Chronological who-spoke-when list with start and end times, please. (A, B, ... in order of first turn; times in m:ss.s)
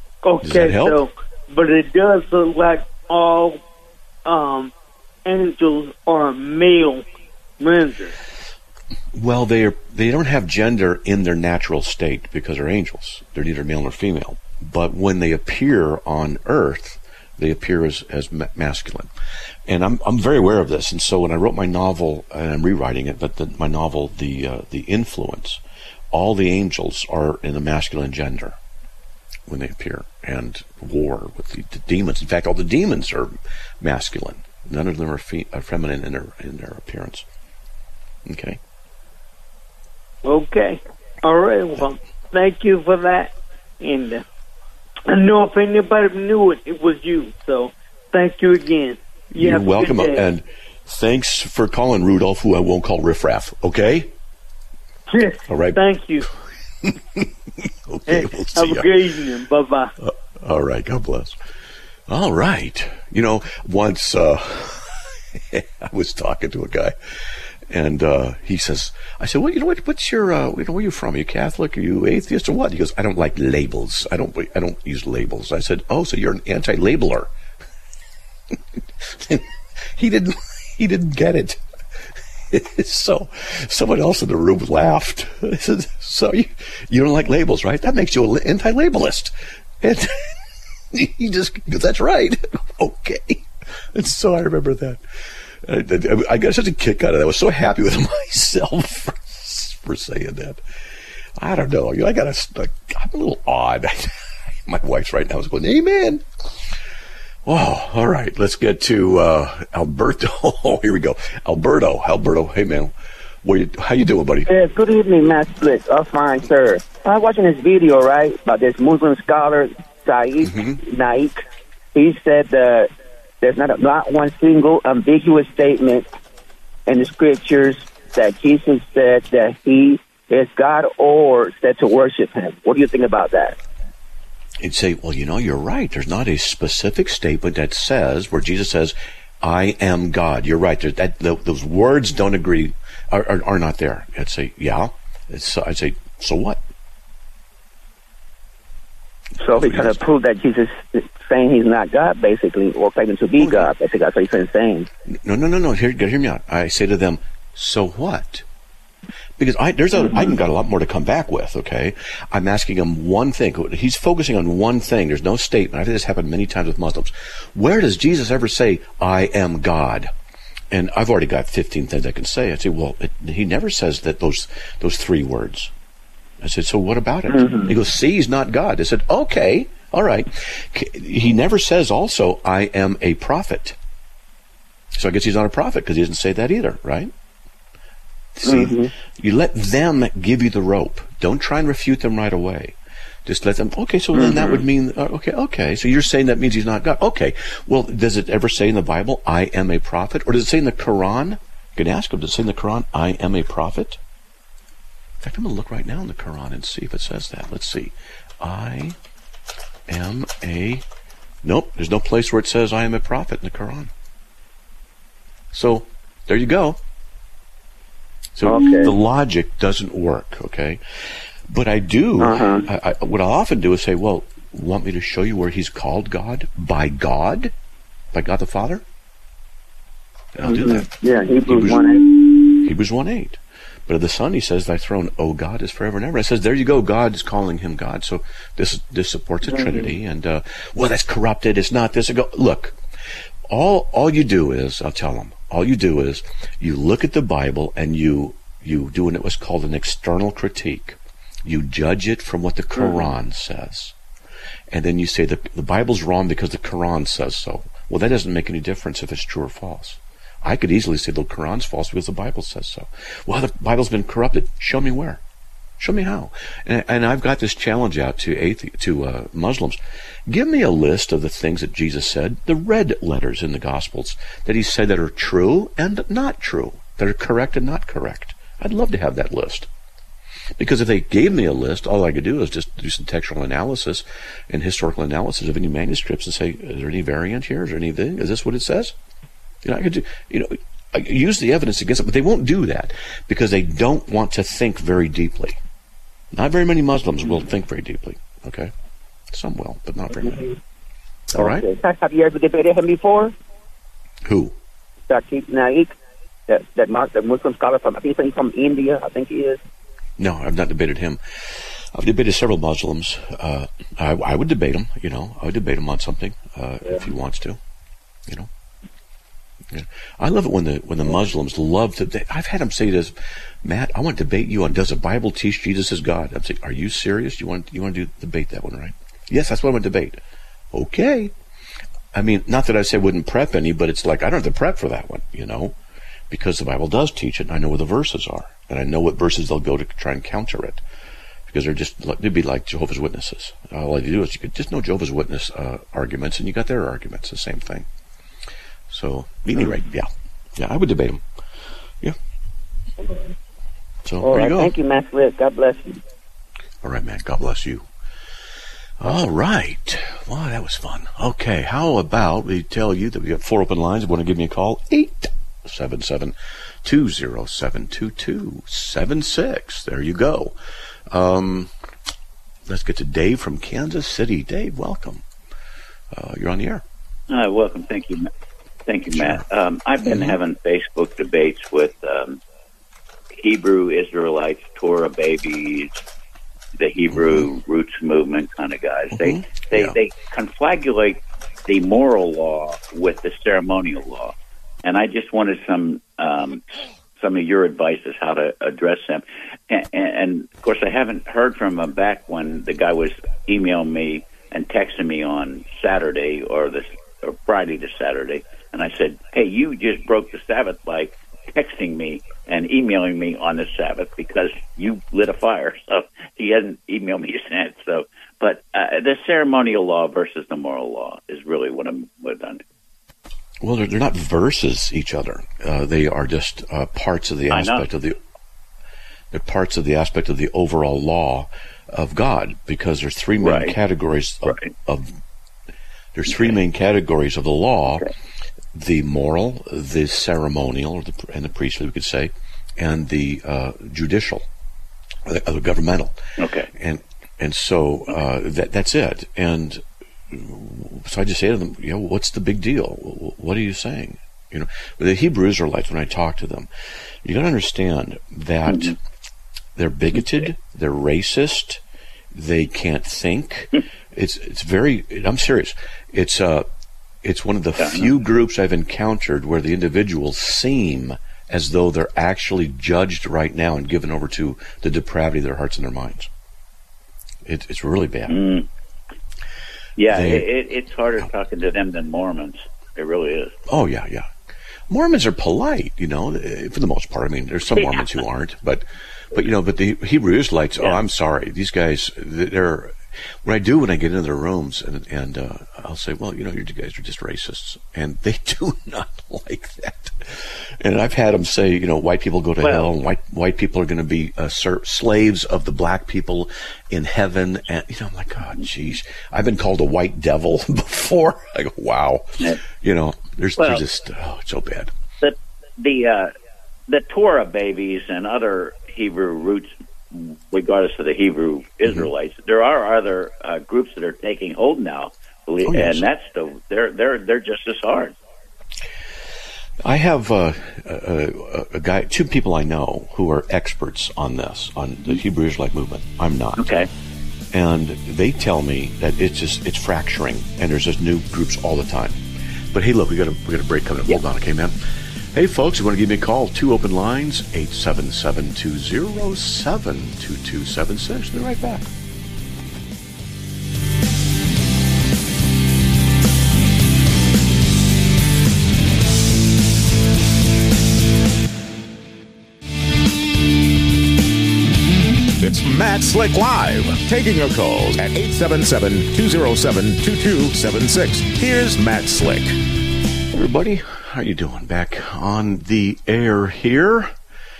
0:00.2-0:03.6 A
0:00.4-0:01.0 B
0:04.2-0:04.7 A
0:05.2-0:07.0 A
0:07.6-0:08.2 A
0:09.1-0:19.1 B
0:19.6-0:25.6 B
0:26.1-0:28.6 B
0:29.5-0:37.2 B
0:38.2-0:38.6 B
0:40.2-0:44.2 A
0:45.1-0:50.2 A
0:49.3-0:54.1 B
0:55.1-0:56.3 A
0:55.5-0:55.8 B
0:56.8-0:59.1 B
0:58.1-0:59.9 A
1:00.0-1:01.4 B
1:02.1-1:06.9 B
1:07.7-1:17.3 B
1:19.0-1:21.6 B
1:22.5-1:30.4 B
1:30.9-1:35.0 B
1:35.6-1:40.6 B
1:41.4-1:46.2 B
1:47.4-1:52.9 B
1:53.4-1:54.5 B
1:54.4-2:01.4 C
2:00.4-2:00.8 B
2:01.9-2:02.9 C
2:03.4-2:06.0 C
2:06.9-2:13.6 C
2:14.6-2:26.6 B
2:29.4-2:34.9 C
2:29.5-2:30.0 B
2:33.4-2:33.7 B
2:35.1-2:38.4 B
2:39.4-2:50.1 B
2:40.0-2:40.4 C
2:50.7-2:55.7 B
2:56.4-3:03.8 B
2:57.3-2:57.7 C
3:04.9-3:07.1 B
3:08.4-3:12.7 B
3:08.4-3:08.9 C
3:13.2-3:24.0 B
3:14.1-3:14.6 C
3:25.2-3:29.0 B
3:29.9-3:30.8 B
3:31.4-3:33.9 B
3:35.5-3:36.8 B
3:38.3-3:40.8 B
3:38.4-3:38.9 C
3:41.5-3:47.5 B
3:42.2-3:42.6 C
3:48.1-3:48.8 B
3:50.3-3:51.9 B
3:50.4-3:52.6 C
3:52.5-4:02.8 B
3:59.5-3:59.9 C
4:03.5-4:13.9 B
4:12.8-4:13.1 C
4:14.7-4:25.2 B
4:25.8-4:39.7 B
4:40.6-4:48.9 B
4:49.6-4:55.6 B
4:56.3-4:58.7 B
4:59.3-5:00.5 B
5:00.2-5:00.5 C
5:01.3-5:01.6 B
5:01.3-5:03.3 C
5:04.2-5:04.5 B
5:05.1-5:05.9 C
5:06.5-5:09.6 C
5:10.2-5:17.6 B
5:19.7-5:30.2 B
5:30.7-5:31.3 B
5:32.1-5:35.7 B
5:36.3-5:40.8 B
5:41.5-5:47.8 B
5:48.9-5:51.2 B
5:54.0-5:54.7 B
5:54.2-5:56.0 C
5:56.8-5:57.8 B
5:59.0-6:10.5 B
6:11.1-6:11.7 B
6:12.7-6:15.2 B
6:16.1-6:16.8 B
6:17.3-6:18.3 D
6:18.8-6:22.4 D
6:19.1-6:19.4 B
6:20.0-6:20.4 B
6:23.4-6:26.0 D
6:26.8-6:36.6 D
6:27.1-6:27.5 B
6:29.1-6:30.0 B
6:37.2-7:02.6 D
7:03.6-7:08.2 B
7:07.5-7:07.9 D
7:09.3-7:15.2 B
7:13.4-7:13.7 D
7:14.4-7:14.7 D
7:16.1-7:18.1 B
7:16.3-7:16.6 D
7:18.7-7:24.4 B
7:25.2-7:26.2 B
7:26.4-7:26.7 D
7:26.7-7:36.7 B
7:37.2-7:39.0 B
7:38.6-7:38.9 D
7:39.8-7:41.8 B
7:40.2-7:40.4 D
7:42.3-7:46.7 B
7:47.2-7:56.3 B
7:47.8-7:48.1 D
7:57.4-7:58.4 B
7:58.3-7:58.7 D
8:00.0-8:03.6 D
8:00.1-8:00.4 B
8:03.7-8:04.3 B
8:04.9-8:34.9 B
8:07.7-8:08.0 D
8:22.6-8:22.9 D
8:33.6-8:33.8 D
8:35.2-8:36.3 D
8:36.9-8:48.2 D
8:45.6-8:46.0 B
8:49.8-8:56.7 B
8:56.6-8:56.9 D
8:57.5-9:02.2 B
9:02.7-9:04.8 B
9:05.3-9:11.9 B
9:25.4-9:32.6 E
9:33.3-9:37.1 B